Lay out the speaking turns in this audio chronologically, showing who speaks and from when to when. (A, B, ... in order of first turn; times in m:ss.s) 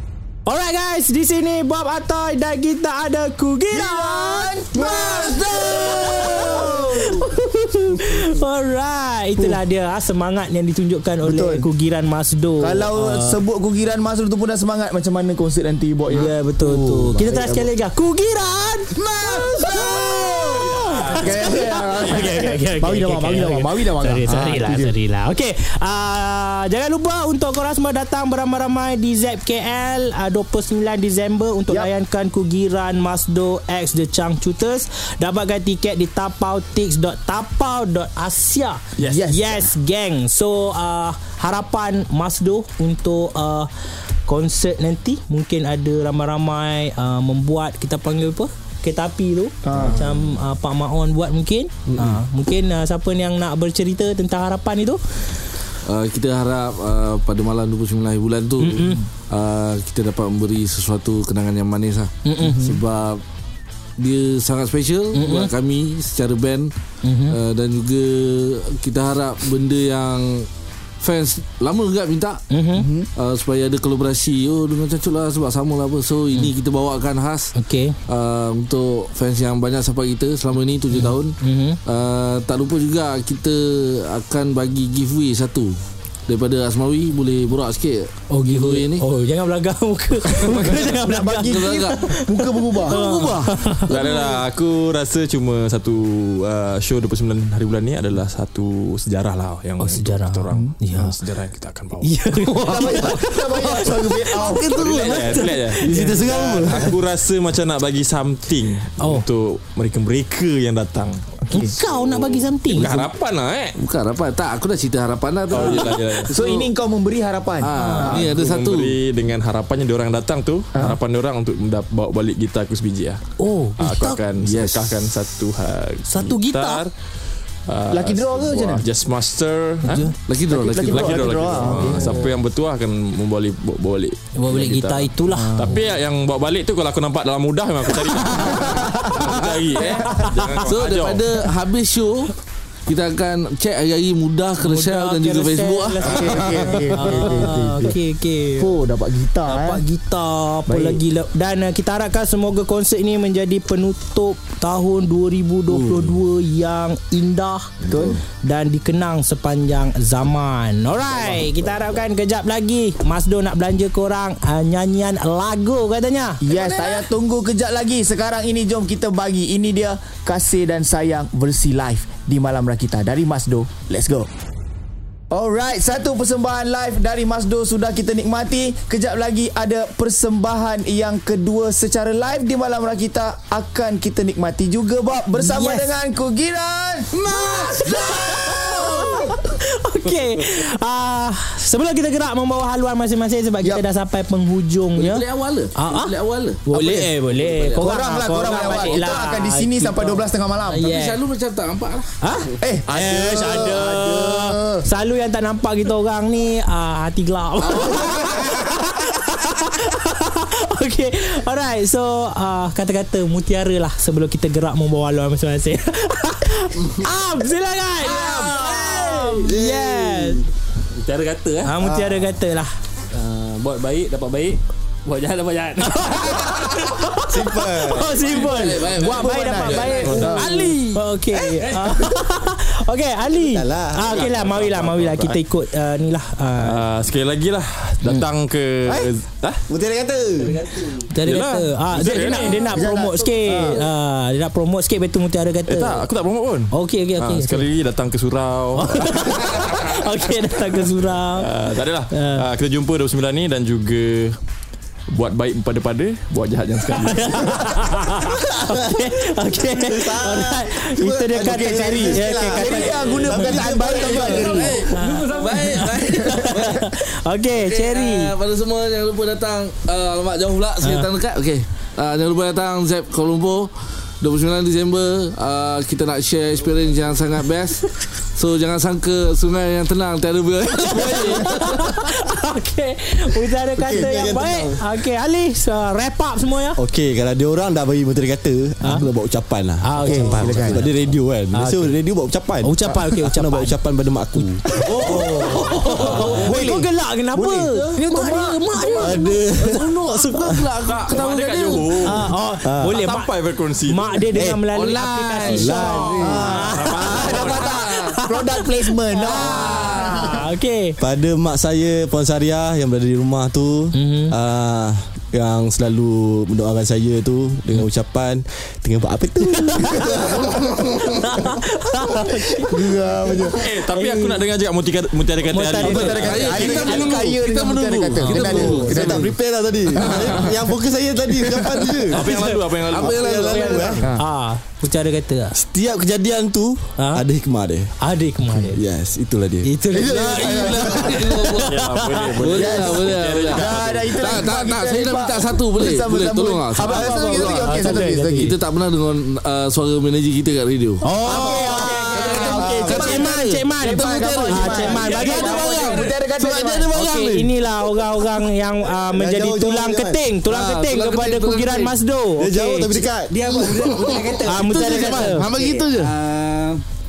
0:00.5-0:13.4 A
0:03.7-0:07.3 B
0:11.2-0:11.6 B
0:12.6-0:17.7 B
0:16.1-0:19.0 A
0:19.0-0:24.9 B
0:19.6-0:43.7 A
0:20.6-0:21.6 C
0:39.0-0:39.7 B
0:44.3-0:55.4 A
0:49.6-0:50.0 B
0:49.8-0:50.2 D
0:55.8-1:03.2 D
0:58.6-0:59.0 A
1:02.2-1:02.8 A
1:04.0-1:06.7 D
1:05.1-1:05.5 A
1:07.0-1:07.4 A
1:07.3-1:10.5 D
1:11.0-1:12.4 D
1:12.5-1:12.9 A
1:12.8-1:13.1 B
1:13.2-1:17.5 D
1:17.6-1:18.0 A
1:18.1-1:21.4 D
1:20.9-1:21.8 A
1:21.9-1:25.7 D
1:26.3-1:29.0 D
1:28.3-1:34.1 A
1:30.5-1:30.9 C
1:30.6-1:33.0 B
1:31.4-1:32.0 D
1:32.9-1:33.6 D
1:33.8-1:43.2 C
1:39.8-1:41.2 A
1:42.0-1:46.2 A
1:42.6-1:45.4 B
1:44.6-1:51.4 C
1:45.8-1:47.0 E
1:49.0-1:49.3 A
1:51.5-1:51.8 B
1:51.5-1:53.0 A
1:52.1-1:53.8 C
1:52.8-1:53.0 D
1:53.8-1:56.3 D
1:55.5-1:56.7 C
1:56.3-1:58.3 B
1:57.6-1:59.0 D
1:57.7-1:58.3 A
1:58.0-2:03.2 C
2:03.4-2:04.2 A
2:03.8-2:06.9 C
2:04.4-2:05.0 D
2:06.1-2:06.8 A
2:07.7-2:10.1 C
2:07.9-2:08.8 B
2:09.8-2:10.1 A
2:10.3-2:12.0 D
2:10.5-2:12.3 B
2:10.8-2:21.3 C
2:11.8-2:12.2 A
2:14.4-2:15.8 A
2:15.3-2:15.8 B
2:18.5-2:19.0 B
2:19.1-2:19.8 D
2:19.8-2:20.2 B
2:20.1-2:20.6 A
2:20.6-2:22.3 D
2:22.9-2:27.1 D
2:24.6-2:28.7 A
2:26.0-2:28.0 B
2:28.6-2:29.8 B
2:29.5-2:37.7 A
2:30.7-2:31.0 B
2:35.7-2:36.2 D
2:37.8-2:38.2 D
2:37.9-2:38.2 B
2:38.4-2:46.4 A
2:46.4-2:54.3 B
2:46.6-2:47.0 C
2:55.3-3:07.1 B
3:05.2-3:05.9 A
3:07.1-3:09.2 D
3:07.3-3:15.2 A
3:07.8-3:09.1 B
3:15.0-3:19.0 D
3:15.8-3:16.1 A
3:16.7-3:21.2 A
3:17.8-3:20.8 B
3:20.7-3:22.2 D
3:22.2-3:40.5 A
3:22.6-3:24.8 B
3:27.6-3:28.6 D
3:38.0-3:39.2 D
3:39.4-3:40.4 E
3:40.9-3:41.7 F
3:41.6-3:42.7 A
3:41.8-3:42.4 E
3:43.1-3:46.6 F
3:45.8-3:56.8 A
3:47.3-3:48.3 E
3:48.2-3:51.0 D
3:48.6-3:50.5 B
3:49.7-3:50.7 C
3:53.3-3:54.2 E
3:54.1-3:55.4 C
3:56.6-3:59.6 C
3:58.9-3:59.1 E
3:59.7-4:00.7 E
4:01.0-4:06.1 A
4:01.2-4:02.8 C
4:02.6-4:03.8 B
4:05.7-4:10.0 C
4:06.7-4:07.7 A
4:08.8-4:11.5 A
4:11.3-4:14.4 C
4:12.1-4:12.5 A
4:15.1-4:17.7 C
4:17.0-4:28.3 A
4:18.7-4:19.0 E
4:19.7-4:24.7 E
4:21.4-4:24.8 B
4:24.0-4:26.9 D
4:24.5-4:25.9 F
4:27.5-4:41.9 D
4:30.8-4:31.1 A
4:40.8-4:46.8 A
4:40.9-4:41.5 E
4:43.8-4:44.4 B
4:43.9-4:44.8 E
4:46.8-4:55.6 E
4:48.8-4:49.1 A
4:49.8-4:50.8 A
4:50.0-4:50.9 B
4:50.5-4:50.9 D
4:51.5-4:51.9 A
4:52.6-4:53.8 A
4:54.4-4:59.4 A
4:54.9-4:56.9 B
4:56.0-4:56.3 D
4:56.2-4:56.6 E
4:59.0-5:00.6 E
4:59.6-5:02.2 D
5:00.9-5:04.2 C
5:02.0-5:03.3 A
5:02.6-5:03.0 E
5:03.9-5:11.0 A
5:04.3-5:04.6 E
5:04.7-5:08.0 D
5:05.4-5:06.4 E
5:06.2-5:10.4 B
5:06.4-5:07.8 C
5:09.3-5:10.3 D
5:11.0-5:21.5 E
5:13.9-5:14.4 A
5:19.4-5:20.5 A
5:20.0-5:20.6 B
5:21.1-5:22.7 A
5:22.6-5:23.7 B
5:23.3-5:24.4 A
5:23.5-5:26.8 C
5:25.4-5:26.8 A
5:25.8-5:29.3 D
5:25.8-5:29.3 B
5:28.2-5:32.4 E
5:30.0-5:30.6 C
5:32.1-5:33.9 C
5:32.2-5:32.6 A
5:32.9-5:34.0 E
5:32.9-5:33.9 D
5:33.2-5:34.2 B
5:34.1-5:35.6 A
5:35.5-5:37.9 E
5:37.0-5:37.2 A
5:38.0-5:38.8 A
5:38.5-5:39.7 E
5:39.6-5:42.3 A
5:39.9-5:41.6 B
5:40.0-5:41.7 D
5:41.6-5:44.2 C
5:42.3-5:57.5 D
5:42.5-5:48.5 B
5:46.8-5:48.5 A
5:51.0-5:55.8 A
5:51.1-5:52.8 E
5:51.2-5:56.9 B
5:56.9-6:03.0 A
5:59.1-6:00.2 E
6:00.5-6:02.0 D
6:02.4-6:04.1 E
6:03.3-6:06.8 G
6:03.6-6:06.2 D
6:04.4-6:05.5 A